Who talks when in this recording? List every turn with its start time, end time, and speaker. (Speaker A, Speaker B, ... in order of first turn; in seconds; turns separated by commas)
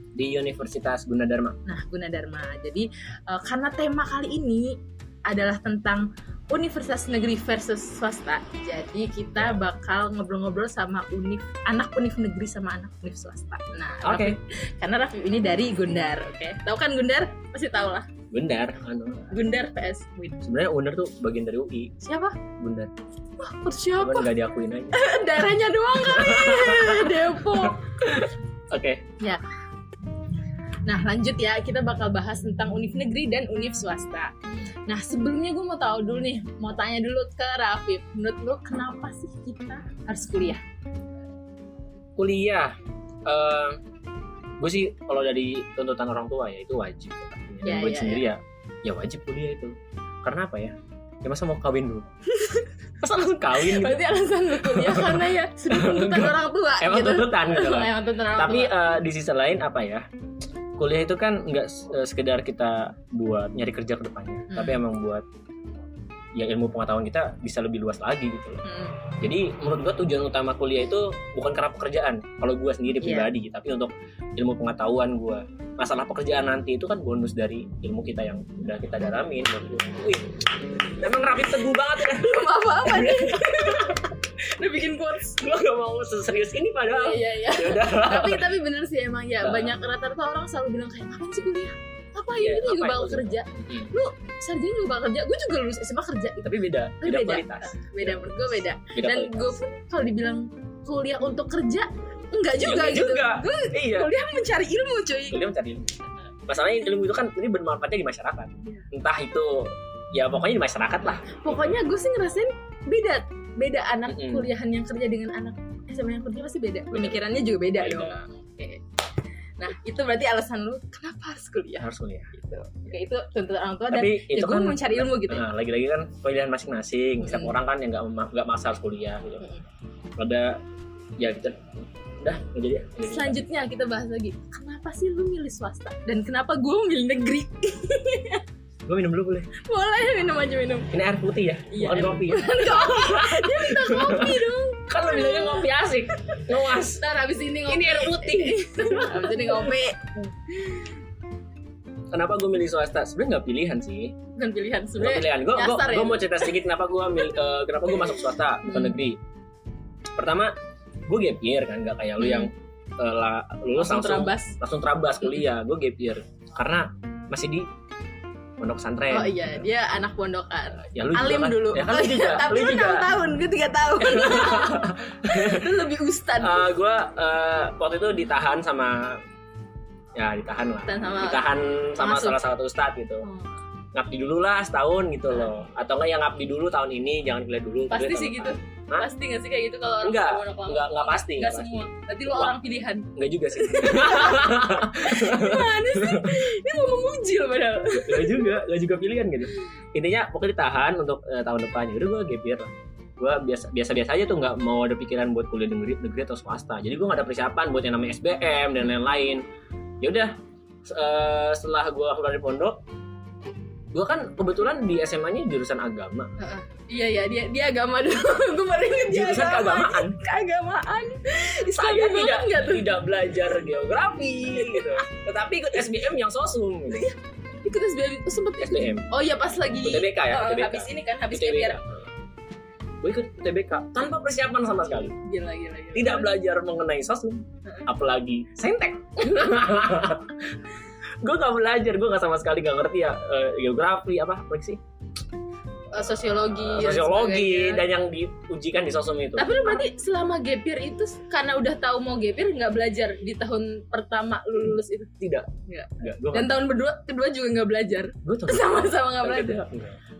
Speaker A: 0.1-1.6, Speaker B: 1.6-18.1, Speaker A: 14.0-14.4, Speaker A: 18.3-19.3, Speaker B: 19.3-20.4, Speaker A: 20.4-21.9, Speaker B: 22.0-22.4, Speaker A: 22.6-22.9, Speaker B: 23.4-24.3, Speaker A: 24.0-25.0, Speaker B: 24.9-28.2, Speaker A: 25.9-29.1, Speaker B: 30.9-34.3, Speaker B: 34.9-40.6, Speaker A: 42.2-42.7, Speaker A: 43.2-43.8, Speaker A: 44.6-52.1, Speaker B: 47.6-48.3, Speaker B: 52.3-58.7, Speaker A: 53.0-60.0, Speaker A: 60.8-65.2, Speaker B: 64.5-64.8, Speaker A: 66.3-68.6, Speaker B: 68.6-69.0, Speaker A: 69.2-80.4, Speaker B: 73.0-73.3, Speaker A: 81.0-84.0, Speaker B: 82.0-85.4, Speaker A: 85.2-88.5, Speaker B: 86.8-105.4, Speaker A: 89.4-89.7, Speaker A: 92.3-93.9, Speaker A: 96.4-98.4, Speaker A: 98.9-99.6, Speaker A: 102.6-104.1, Speaker A: 105.3-105.9, Speaker A: 106.5-111.8, Speaker B: 111.0-118.8, Speaker A: 114.1-114.5, Speaker A: 116.9-117.2, Speaker A: 117.8-118.2, Speaker B: 119.6-125.5, Speaker A: 121.8-122.3, Speaker A: 123.9-129.4, Speaker B: 127.2-127.5, Speaker A: 130.2-130.6, Speaker A: 131.2-133.4, Speaker B: 133.0-138.4, Speaker A: 138.8-139.5, Speaker B: 139.6-140.9, Speaker A: 140.9-147.0, Speaker B: 141.7-146.4, Speaker B: 147.0-150.8, Speaker A: 147.7-149.7, Speaker A: 152.1-154.1, Speaker B: 154.3-156.6, Speaker A: 154.9-159.2, Speaker B: 158.6-158.9, Speaker A: 160.2-160.5, Speaker A: 161.1-167.7, Speaker B: 162.2-162.5, Speaker B: 163.8-164.6, Speaker A: 168.6-169.5, Speaker B: 169.1-176.7, Speaker A: 170.9-173.1, Speaker A: 174.0-175.8, Speaker A: 176.4-179.2, Speaker A: 180.2-183.3, Speaker B: 180.8-181.4, Speaker B: 182.0-182.4, Speaker B: 183.2-183.5, Speaker A: 183.9-189.1, Speaker B: 187.9-198.6, Speaker A: 190.0-192.5, Speaker A: 193.2-196.4, Speaker A: 197.9-209.4, Speaker A: 210.0-210.3, Speaker A: 210.8-212.8, Speaker A: 213.9-216.3, Speaker B: 216.4-222.9, Speaker A: 219.1-220.2, Speaker A: 221.7-227.1, Speaker B: 226.9-231.8, Speaker A: 228.6-229.1, Speaker A: 229.8-232.0, Speaker A: 233.0-235.1, Speaker B: 235.1-236.3, Speaker A: 235.9-240.4, Speaker B: 239.3-239.6, Speaker A: 241.2-244.8, Speaker B: 245.9-247.8, Speaker A: 246.4-249.8, Speaker B: 249.3-255.1, Speaker A: 255.2-256.6, Speaker B: 255.7-259.6, Speaker A: 258.2-260.0